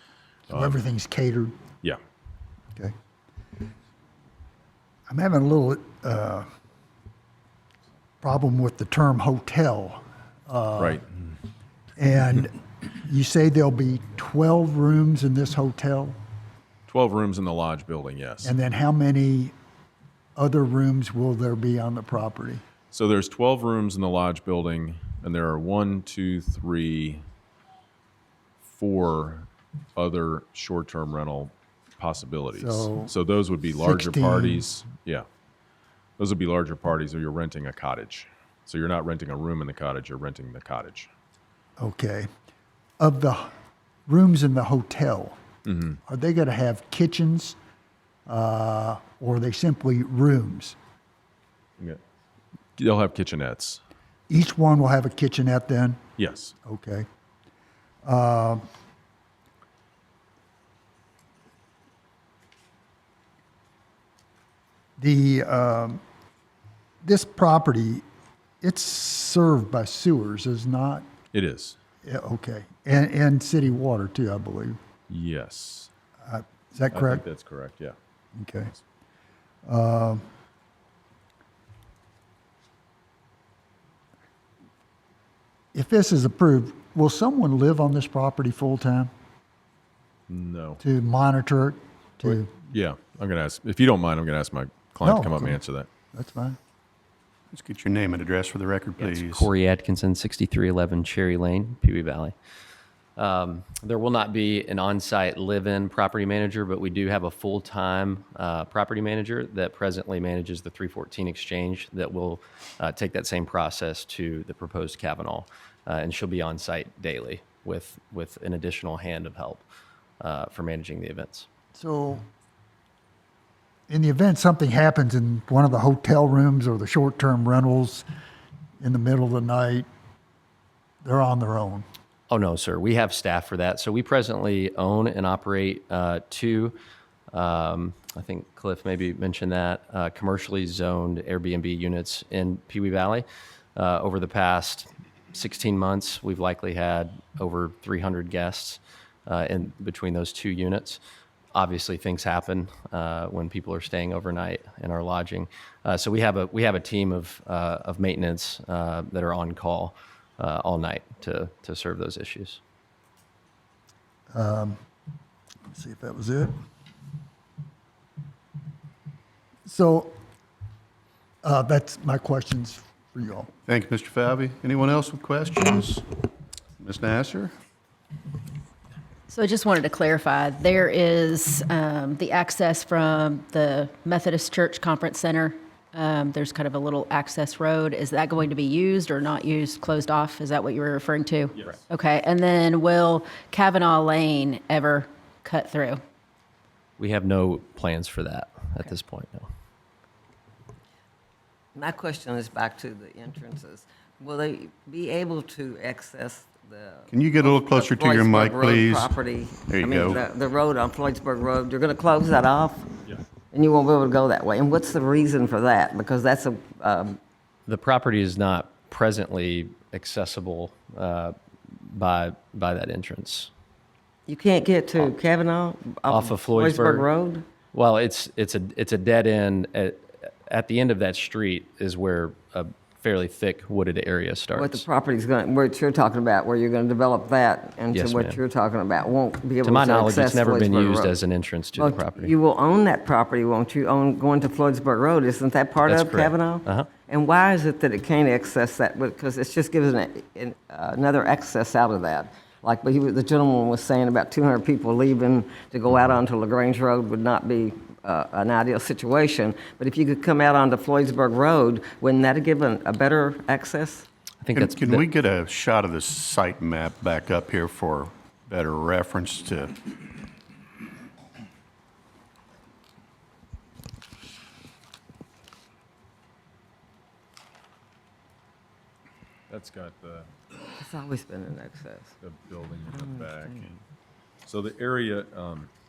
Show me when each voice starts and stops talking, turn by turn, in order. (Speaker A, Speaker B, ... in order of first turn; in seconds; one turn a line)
Speaker A: 0.5-0.7
Speaker B: 0.5-1.6
Speaker B: 5.1-6.5
Speaker B: 8.2-11.0
Speaker B: 12.0-16.2
Speaker A: 16.9-18.5
Speaker B: 18.4-19.5
Speaker B: 20.4-22.6
Speaker A: 22.9-27.2
Speaker A: 28.6-35.2
Speaker B: 32.5-33.1
Speaker B: 33.8-34.7
Speaker A: 36.2-41.1
Speaker B: 41.8-42.3
Speaker B: 43.0-43.5
Speaker B: 44.1-45.4
Speaker A: 45.6-46.0
Speaker B: 46.1-47.6
Speaker B: 48.3-50.8
Speaker A: 52.8-53.8
Speaker B: 54.3-56.0
Speaker A: 56.2-56.5
Speaker B: 56.6-57.0
Speaker B: 58.0-58.6
Speaker B: 65.0-66.0
Speaker B: 67.0-68.0
Speaker B: 68.6-71.1
Speaker A: 71.3-71.8
Speaker B: 72.0-74.8
Speaker A: 75.1-75.9
Speaker B: 76.2-77.2
Speaker A: 76.9-78.0
Speaker B: 78.3-78.7
Speaker B: 79.7-80.2
Speaker B: 85.7-89.1
Speaker A: 90.3-90.8
Speaker B: 90.8-92.5
Speaker A: 92.2-95.9
Speaker B: 95.0-95.6
Speaker B: 96.1-96.6
Speaker C: 97.5-99.5
Speaker D: 99.0-102.3
Speaker D: 103.2-119.7
Speaker D: 120.2-121.5
Speaker B: 121.7-122.2
Speaker B: 123.9-128.0
Speaker B: 128.8-129.9
Speaker B: 131.0-131.8
Speaker D: 132.3-136.8
Speaker D: 137.3-151.0
Speaker D: 151.5-162.6
Speaker B: 164.3-164.8
Speaker B: 165.7-166.6
Speaker B: 169.7-170.1
Speaker B: 171.4-173.5
Speaker C: 173.7-176.2
Speaker C: 176.8-177.5
Speaker E: 179.3-196.0
Speaker A: 191.6-191.8
Speaker D: 197.0-199.5
Speaker F: 201.7-212.9
Speaker C: 207.1-209.1
Speaker C: 209.7-210.2
Speaker F: 213.5-217.2
Speaker D: 217.7-223.5
Speaker F: 224.3-227.4
Speaker D: 226.1-227.1
Speaker D: 227.7-234.8
Speaker F: 234.6-241.2
Speaker D: 237.9-238.4
Speaker D: 239.6-242.3
Speaker F: 241.8-264.1
Speaker D: 245.8-246.9
Speaker D: 264.4-265.1
Speaker C: 264.5-269.9
Speaker A: 279.5-280.3
Speaker F: 280.8-282.1
Speaker A: 282.2-283.8
Speaker F: 282.9-283.7
Speaker A: 284.4-285.7